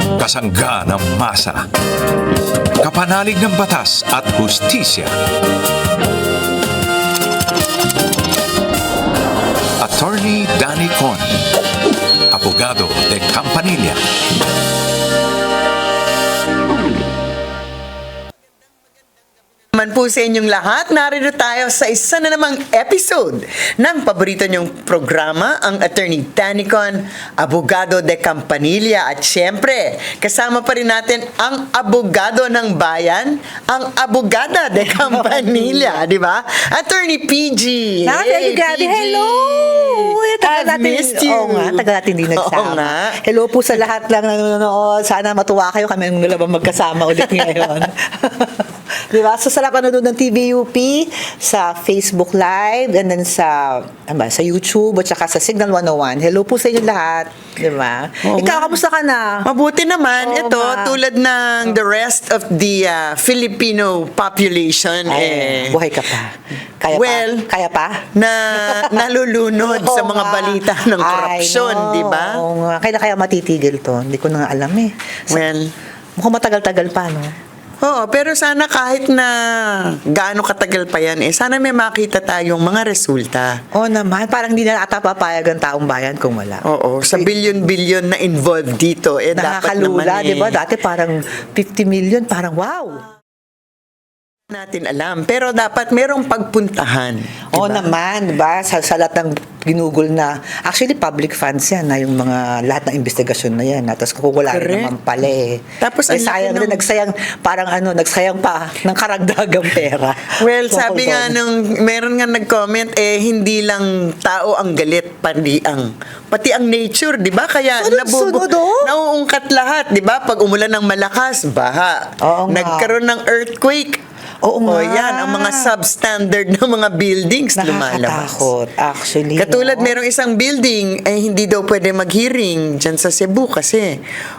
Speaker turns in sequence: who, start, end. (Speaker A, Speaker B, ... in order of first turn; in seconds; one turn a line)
Speaker A: 0.2-1.6
Speaker A: 2.8-5.1
Speaker A: 9.8-11.5
Speaker A: 12.3-14.0
Speaker B: 19.7-43.2
Speaker C: 34.8-36.0
Speaker C: 38.0-59.5
Speaker B: 47.3-47.7
Speaker B: 58.2-58.8
Speaker B: 59.4-65.8
Speaker C: 60.2-61.0
Speaker C: 65.1-69.0
Speaker B: 66.9-67.5
Speaker B: 68.1-72.4
Speaker C: 69.6-75.4
Speaker B: 75.3-75.7
Speaker C: 76.2-77.3
Speaker B: 77.8-83.6
Speaker C: 83.7-87.3
Speaker B: 86.6-90.6
Speaker C: 89.3-93.0
Speaker B: 94.5-97.8
Speaker C: 97.5-111.4
Speaker B: 104.5-104.9
Speaker B: 105.8-106.8
Speaker B: 110.4-124.0
Speaker C: 117.8-118.9
Speaker C: 122.2-122.9
Speaker C: 124.4-125.7
Speaker B: 124.7-128.5
Speaker C: 127.6-129.9
Speaker B: 129.3-134.0